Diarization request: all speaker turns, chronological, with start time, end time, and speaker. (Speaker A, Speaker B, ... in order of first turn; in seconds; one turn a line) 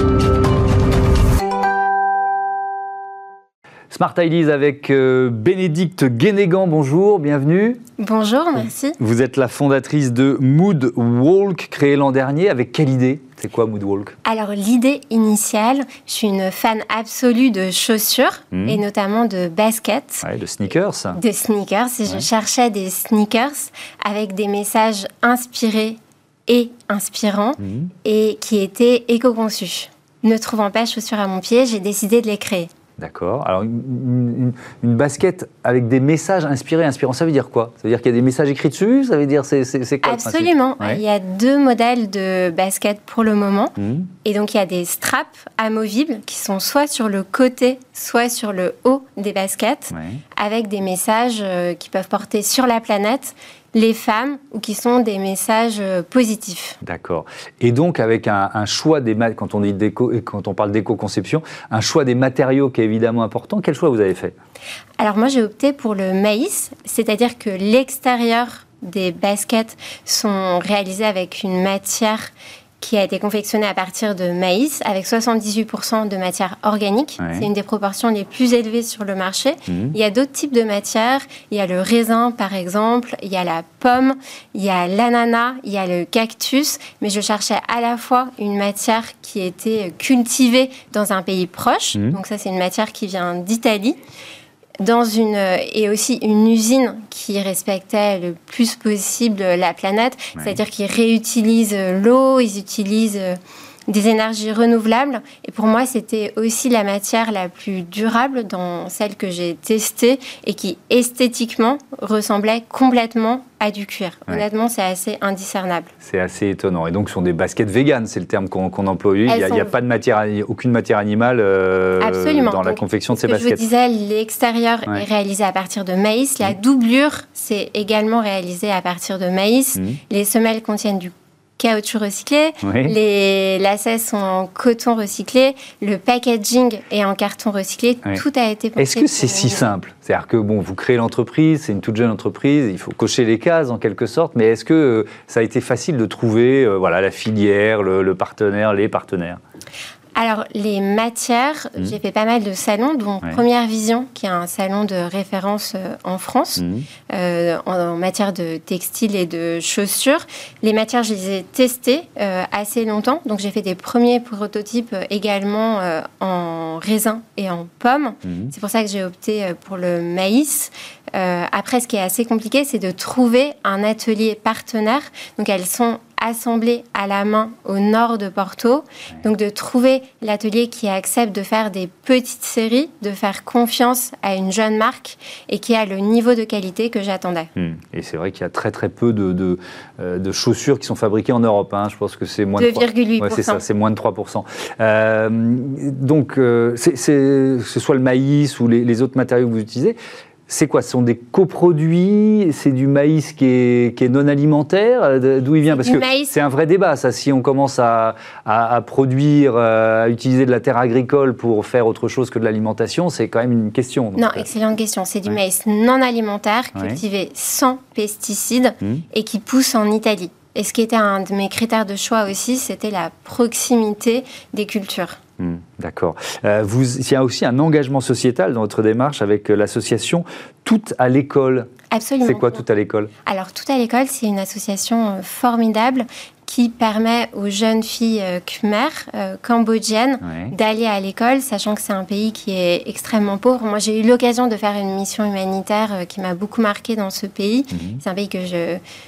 Speaker A: 3.9-7.8
Speaker B: 8.0-9.0
Speaker A: 9.0-14.2
Speaker B: 14.2-20.2
Speaker A: 18.5-18.8
Speaker A: 20.2-21.2
Speaker B: 21.1-32.7
Speaker A: 27.6-27.9
Speaker A: 33.0-41.0
Speaker B: 40.0-56.8
Speaker A: 43.8-44.1
Speaker A: 49.9-50.2
Speaker A: 56.8-64.3
Speaker B: 65.0-94.0
Speaker A: 77.2-77.5
Speaker A: 79.7-79.9
Speaker B: 94.8-115.9
Speaker A: 116.0-123.6
Speaker B: 119.3-119.7
Speaker B: 122.0-139.7
Speaker A: 132.6-132.9
Speaker A: 138.8-149.4
Speaker B: 150.2-187.5
Speaker A: 156.6-156.8
Speaker A: 168.2-168.5
Speaker A: 187.6-200.0
Speaker B: 192.6-193.6
Speaker A: 200.5-214.5
Speaker B: 205.7-206.3
Speaker B: 214.2-225.2
Speaker A: 216.8-217.0
Speaker A: 225.4-231.7
Speaker B: 231.9-232.6
Speaker A: 232.2-233.1
Speaker B: 233.2-248.8
Speaker A: 240.2-240.5
Speaker A: 247.7-248.0